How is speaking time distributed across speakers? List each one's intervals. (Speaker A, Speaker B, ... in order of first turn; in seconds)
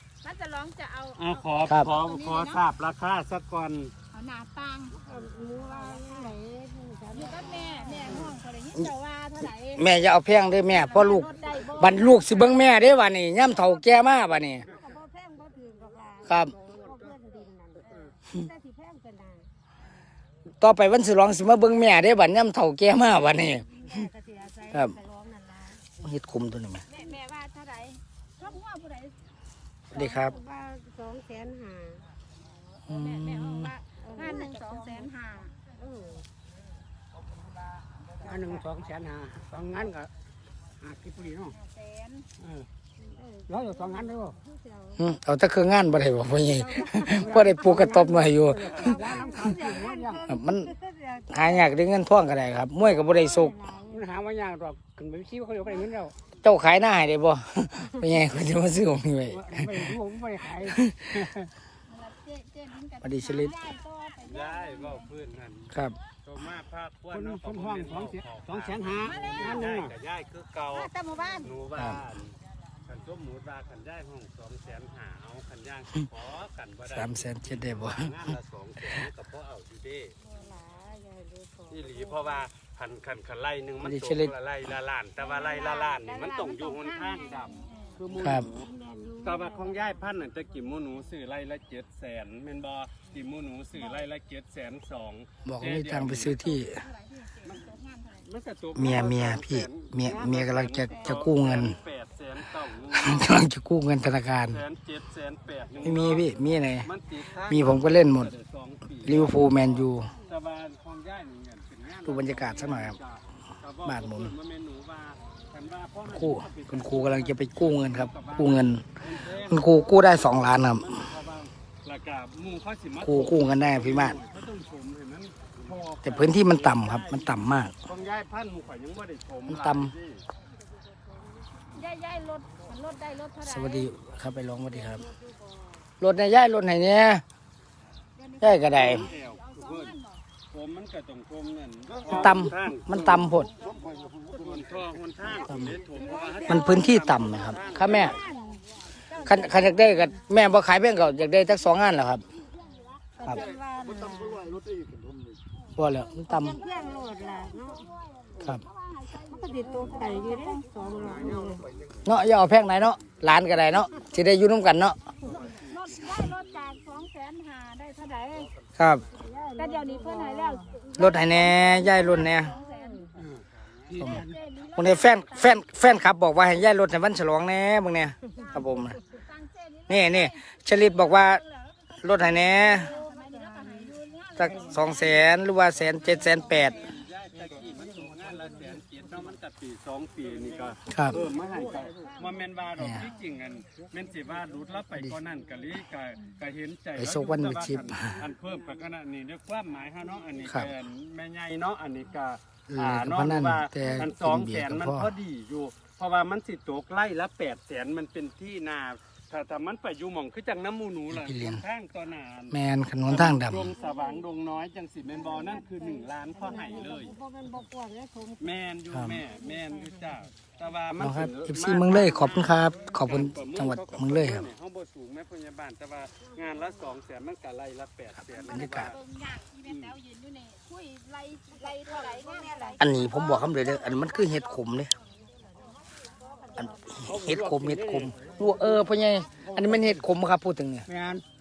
Speaker A: 0.2-2.6, 4.1-5.0, 5.7-6.3, 7.1-9.9, 10.7-12.4, 26.9-29.1, 32.9-35.5, 41.6-42.3, 61.9-65.1, 69.0-69.6, 87.2-87.8, 96.5-98.3, 131.7-133.9, 138.2-140.2, 146.1-146.8, 147.8-148.5, 149.1-149.9, 159.4-160.7, 165.5-168.5, 169.6-173.3, 174.0-175.7, 178.4-185.5, 186.1-186.9, 228.5-233.1
Speaker B: 1.2-3.9, 64.2-80.1, 81.7-88.7, 89.2-96.4, 98.2-103.3, 104.5-106.3, 106.8-109.7, 110.2-130.2, 138.7-139.9, 140.5-143.5, 144.3-148.2, 173.2-174.3, 186.2-212.6, 213.1-217.1, 218.4-229.0, 229.6-230.0, 237.1-238.1
Speaker C: 1.6-1.9, 9.8-14.7, 16.3-16.5, 20.6-24.1, 24.7-25.0, 25.9-26.9, 29.9-30.4, 32.9-33.7, 45.0-49.0, 50.3-50.7, 51.3-53.6, 56.4-59.9, 60.7-61.2, 63.0-63.5, 71.7-72.0, 76.9-78.2, 83.8-84.3, 88.2-88.5, 95.4-96.8, 98.8-101.8, 102.9-104.6, 105.8-106.9, 107.5-108.3, 109.0-110.1, 112.0-113.0, 113.8-114.3, 116.1-118.8, 119.5-120.9, 123.0-124.2, 126.0-127.7, 129.5-129.9, 133.4-135.1, 136.0-137.2, 138.4-139.1, 142.1-143.5, 145.5-145.8, 146.5-148.2, 149.2-152.2, 155.8-156.6, 162.1-165.0, 168.8-169.0, 171.0-172.5, 174.0-179.0, 179.9-181.4, 182.0-182.9, 184.4-186.8, 190.9-191.2, 192.8-193.1, 197.0-198.2, 202.7-205.1, 211.1-211.6, 212.5-213.7, 218.9-219.2, 221.0-224.5, 228.3-228.9, 232.8-234.9, 236.6-240.9
Speaker D: 5.0-8.3, 11.1-12.3, 14.6-19.5, 23.7-25.9, 29.9-32.0, 34.0-35.1, 35.7-36.3, 43.0-45.1, 46.4-51.8, 52.8-54.0, 70.7-71.5, 80.2-82.4, 85.2-87.5, 88.1-90.0, 134.8-135.6, 145.9-146.6, 147.5-149.8, 152.5-154.6, 156.2-161.7, 165.3-165.6, 169.1-173.1, 178.3-179.0, 182.7-183.1, 213.8-214.2, 215.1-218.5, 219.3-220.1, 226.2-226.9, 231.8-234.4, 235.0-237.1
Speaker E: 38.2-40.1, 40.8-41.5, 42.4-42.6, 43.5-44.4, 47.0-50.2, 53.9-56.1, 59.3-61.5, 67.1-69.9, 237.8-238.1, 239.4-239.9, 240.9-241.2